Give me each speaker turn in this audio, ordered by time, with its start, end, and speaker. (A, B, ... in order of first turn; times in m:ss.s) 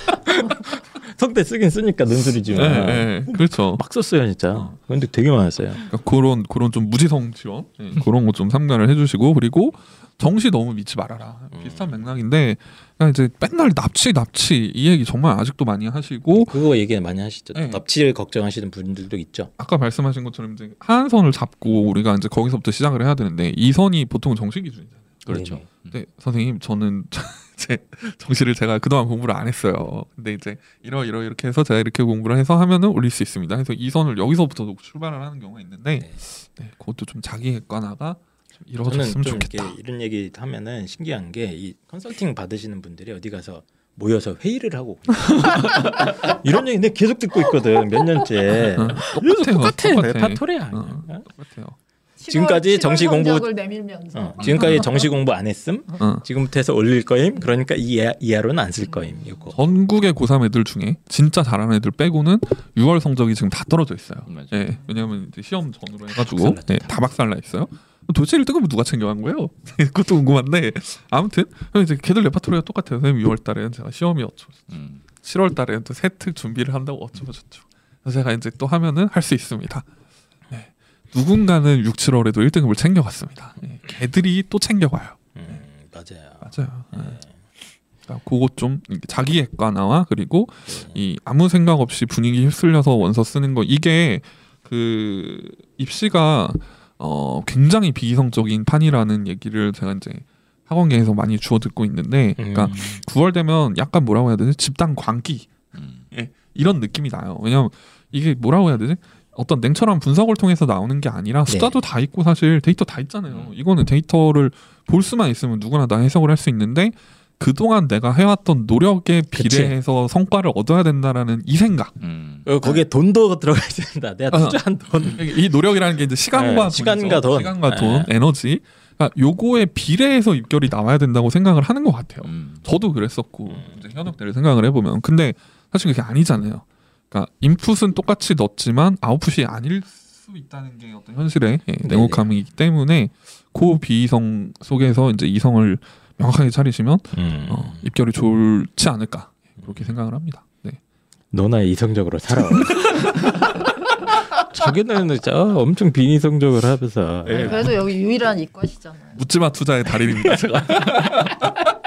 0:00.3-0:05.8 A
0:02.5-0:03.8 B
0:05.9-0:16.6 B
0:11.5-0:11.9 A
0:16.3-0:19.5 A
0:17.6-0:17.8 B
0:19.6-0:25.0 B
0:25.2-0:26.0 C
0:25.3-0:25.7 A
0:25.9-0:39.7 B
0:38.8-0:51.2 A
0:48.6-0:51.8 B
0:52.2-0:55.1 D
0:52.3-0:53.5 A
0:54.1-0:59.6 A
0:54.4-0:54.7 B
0:59.5-1:19.9 B
1:04.3-1:04.7 C
1:06.1-1:06.9 A
1:14.7-1:15.0 C
1:20.5-1:25.2 B
1:25.4-1:27.3 A
1:26.4-1:27.2 B
1:28.1-1:45.5 B
1:30.7-1:31.0 A
1:42.4-1:43.0 A
1:45.8-1:46.0 C
1:46.1-2:02.0 B
1:51.5-1:51.8 A
1:53.3-1:53.5 C
1:59.3-1:59.8 A
2:02.0-2:02.8 C
2:02.5-2:05.2 A
2:04.3-2:04.6 B
2:05.1-2:30.8 B
2:06.3-2:08.1 A
2:12.2-2:12.6 C
2:13.5-2:13.8 A
2:21.8-2:22.3 A
2:27.1-2:27.9 A
2:31.3-2:37.7 A
2:37.3-2:37.7 B
2:37.3-2:39.2 D
2:39.2-2:41.4 B
2:40.0-2:41.3 A